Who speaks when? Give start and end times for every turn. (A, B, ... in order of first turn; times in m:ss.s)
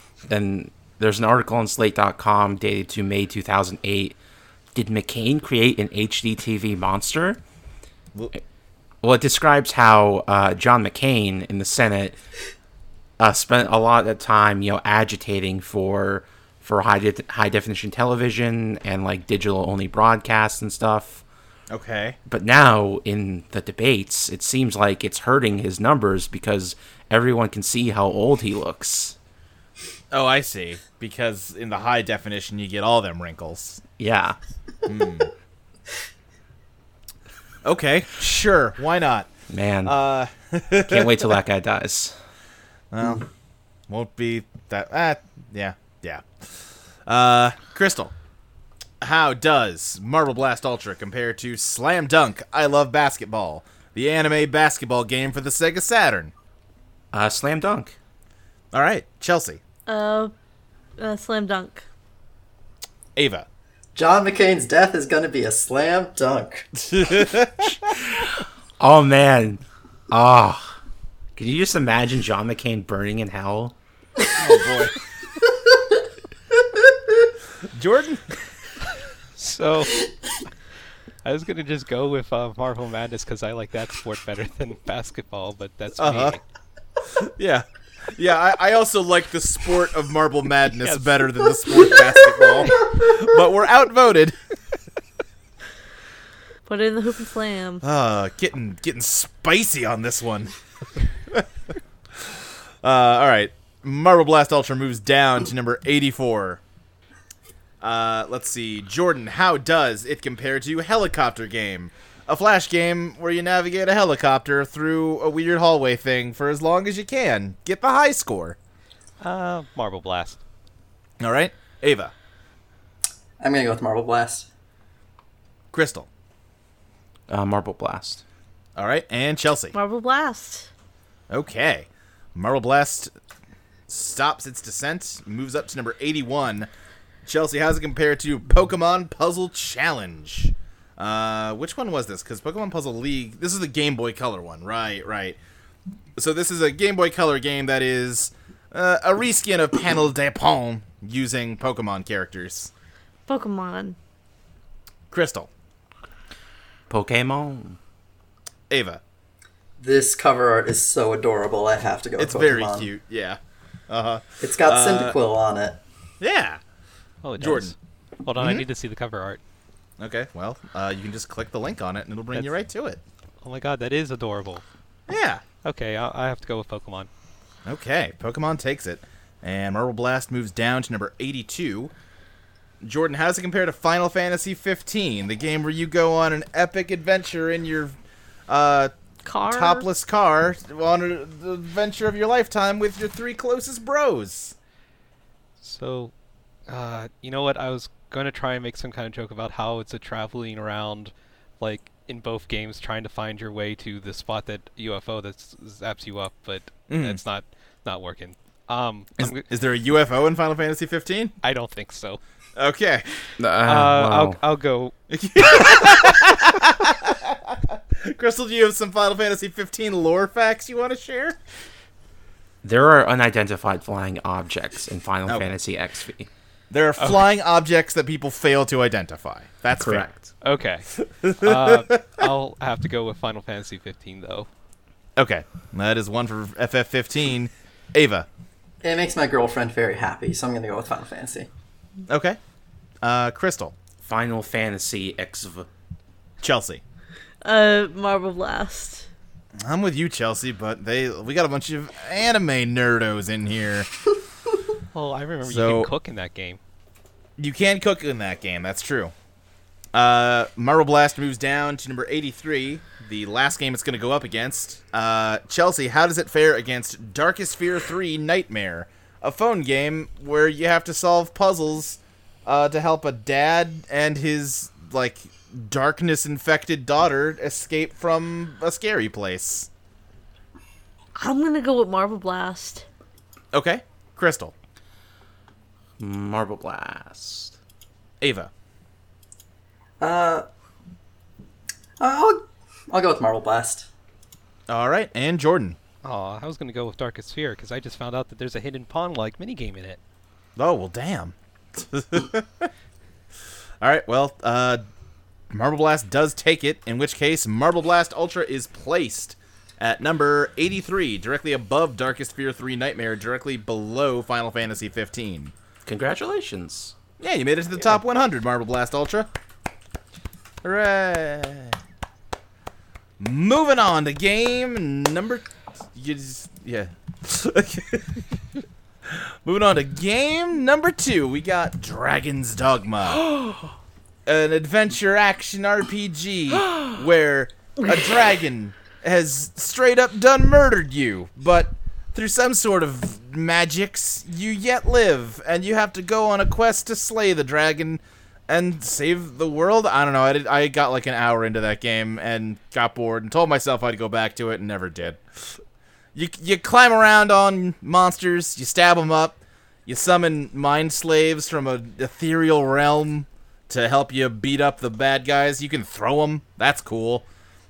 0:00.3-0:04.2 A
0:04.7-0:07.4 A
0:09.0-0:12.2 A
0:13.2-0:21.2 A
0:21.7-0:22.2 B
0:22.3-0:29.1 A
0:30.1-0:33.8 B
0:34.0-0:34.4 A
0:34.8-0:35.3 B
0:37.6-0:39.3 B
0:39.5-0:39.9 A
0:39.8-0:41.3 B
0:40.8-0:42.1 A
0:42.9-0:43.3 B
0:43.9-0:46.3 B
0:47.0-0:48.1 B
0:49.0-0:56.3 B
0:57.1-0:57.9 A
0:58.7-0:59.6 B
0:59.9-1:00.3 C
1:01.0-1:01.8 C
1:03.2-1:03.4 B
1:03.9-1:06.7 D
1:06.8-1:07.8 B
1:07.9-1:10.8 A
1:11.4-1:13.7 A
1:14.4-1:14.9 B
1:17.7-1:18.2 B
1:19.4-1:20.1 E
1:21.2-1:26.4 E
1:26.0-1:26.4 B
1:27.1-1:34.4 B
1:30.8-1:31.4 E
1:36.6-1:37.8 C
1:37.8-1:40.5 B
1:42.8-1:46.6 B
1:47.8-1:58.6 B
1:59.2-2:00.4 E
2:01.2-2:02.1 B
2:03.4-2:04.5 D
2:05.7-2:06.1 B
2:07.3-2:08.2 A
2:08.8-2:09.7 B
2:09.7-2:10.7 C
2:11.3-2:13.1 B
2:13.9-2:16.7 B
2:17.2-2:25.4 B
2:26.2-2:32.7 B
2:33.3-2:34.0 C
2:35.1-2:35.5 B
2:36.9-2:37.8 A
2:38.7-2:39.0 B
2:39.8-2:42.9 D
2:42.2-2:43.4 B
2:43.9-2:45.2 B
2:44.4-2:45.8 D
2:46.2-2:46.6 B
2:47.2-2:49.4 E
2:47.4-2:47.7 B
2:48.4-2:48.6 B
2:50.0-2:53.0 B
2:53.4-2:54.6 E
2:55.1-2:55.4 B
2:55.6-2:57.1 E
2:57.6-3:01.9 B
3:02.8-3:08.0 B
3:08.5-3:08.9 B
3:09.2-3:09.9 C
3:09.4-3:14.5 B
3:15.6-3:16.1 E
3:16.7-3:29.4 E
3:26.9-3:27.2 B
3:29.2-3:31.3 B
3:31.4-3:32.2 E
3:32.6-3:33.0 B
3:33.4-3:34.4 A
3:33.6-3:34.9 E
3:35.1-3:41.4 B
3:42.6-3:46.3 A
3:45.3-3:45.5 B
3:46.7-3:50.1 B
3:47.0-3:47.2 E
3:49.8-3:50.3 A
3:50.4-3:54.5 E
3:51.2-3:52.3 B
3:55.2-3:58.3 B
3:58.8-4:01.5 D
4:02.1-4:02.4 B
4:03.0-4:03.8 B
4:04.0-4:05.7 A
4:06.4-4:06.8 B
4:07.4-4:09.1 C
4:09.6-4:13.9 B
4:14.9-4:16.6 E
4:15.4-4:15.9 B
4:17.4-4:19.1 B
4:19.9-4:39.7 B
4:41.2-4:42.8 C
4:43.5-4:44.5 B
4:46.0-4:47.6 A
4:48.2-4:48.5 B
4:50.0-4:50.4 D
4:52.0-4:53.9 D
4:54.7-4:55.8 B
4:56.0-5:00.0 E
5:00.6-5:02.7 B
5:03.8-5:04.8 B
5:05.5-5:15.5 B
5:15.8-5:17.0 A
5:17.2-5:19.3 B
5:20.6-5:21.8 B
5:23.2-5:28.2 B
5:29.1-5:33.3 B
5:34.2-5:55.2 B
5:56.1-6:07.2 B